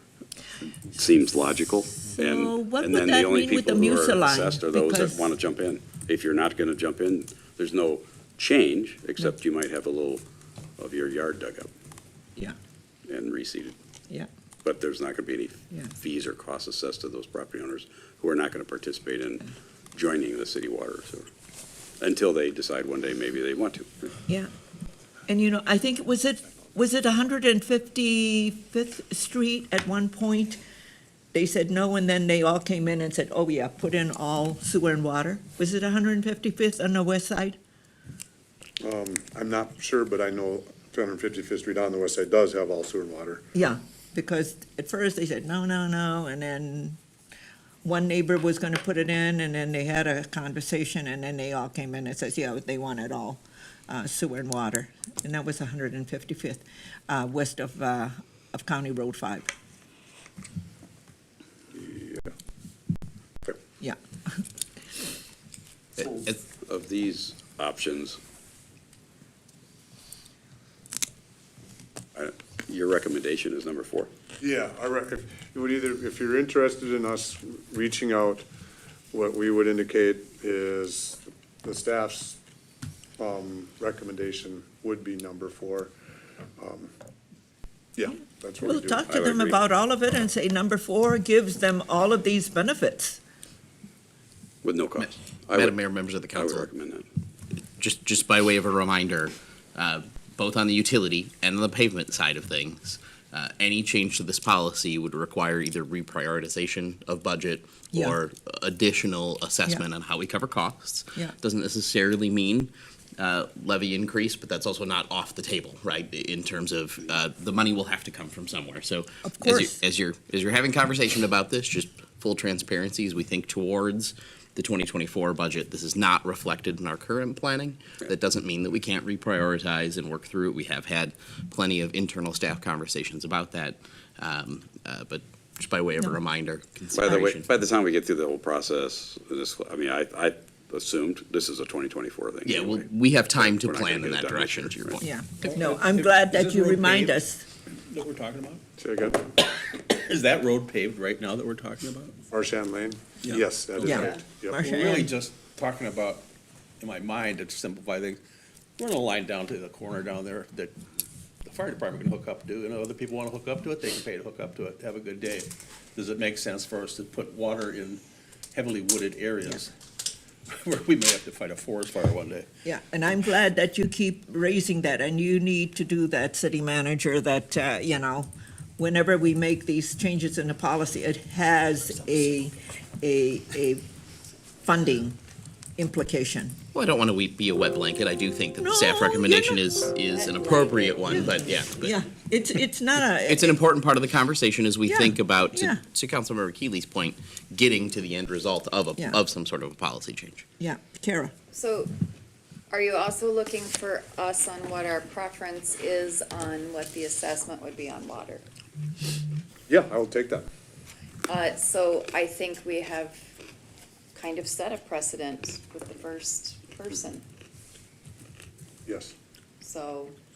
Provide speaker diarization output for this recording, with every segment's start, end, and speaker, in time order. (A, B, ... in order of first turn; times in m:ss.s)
0:00.9-0:10.2 A
0:02.1-0:05.3 B
0:10.8-0:11.7 A
0:13.1-0:13.8 A
0:14.6-0:21.3 A
0:22.0-0:24.2 A
0:25.3-0:30.6 B
0:31.3-0:37.6 B
0:38.8-0:43.5 C
0:43.5-0:47.0 B
0:47.8-0:59.5 B
1:01.8-1:02.2 C
1:03.8-1:04.4 B
1:06.0-1:06.4 D
1:06.6-1:08.2 A
1:12.2-1:14.1 A
1:14.4-1:18.5 C
1:19.1-1:22.4 C
1:23.2-1:25.9 C
1:26.6-1:26.9 C
1:28.0-1:29.0 C
1:28.6-1:33.2 B
1:29.1-1:29.6 A
1:34.6-1:35.8 A
1:35.0-1:36.7 D
1:36.4-1:37.1 A
1:37.8-2:17.5 D
1:59.3-1:59.8 B
2:16.9-2:25.0 A
2:22.5-2:25.0 D
2:25.0-2:27.5 B
2:25.4-2:27.2 E
2:27.9-2:28.6 E
2:28.8-2:29.2 C
2:29.6-2:32.2 E
2:32.3-2:34.7 C
2:33.2-2:36.3 E
2:33.8-2:35.1 B
2:33.9-2:34.2 F
2:36.8-2:38.2 E
2:38.8-2:40.7 E
2:41.5-2:48.0 E
2:48.5-2:49.7 E
2:50.5-2:52.5 E
2:52.6-3:03.8 B
3:04.6-3:05.2 B
3:05.8-3:06.6 B
3:06.7-3:12.0 D
3:08.6-3:09.8 B
3:10.1-3:11.4 F
3:11.1-3:13.5 B
3:13.1-3:20.5 D
3:14.9-3:15.8 B
3:20.6-3:21.3 B
3:21.5-3:21.9 F
3:22.7-3:28.4 F
3:29.7-3:30.5 C
3:31.3-3:33.2 F
3:34.1-3:37.2 F
3:38.9-3:39.1 C
3:39.6-3:40.2 F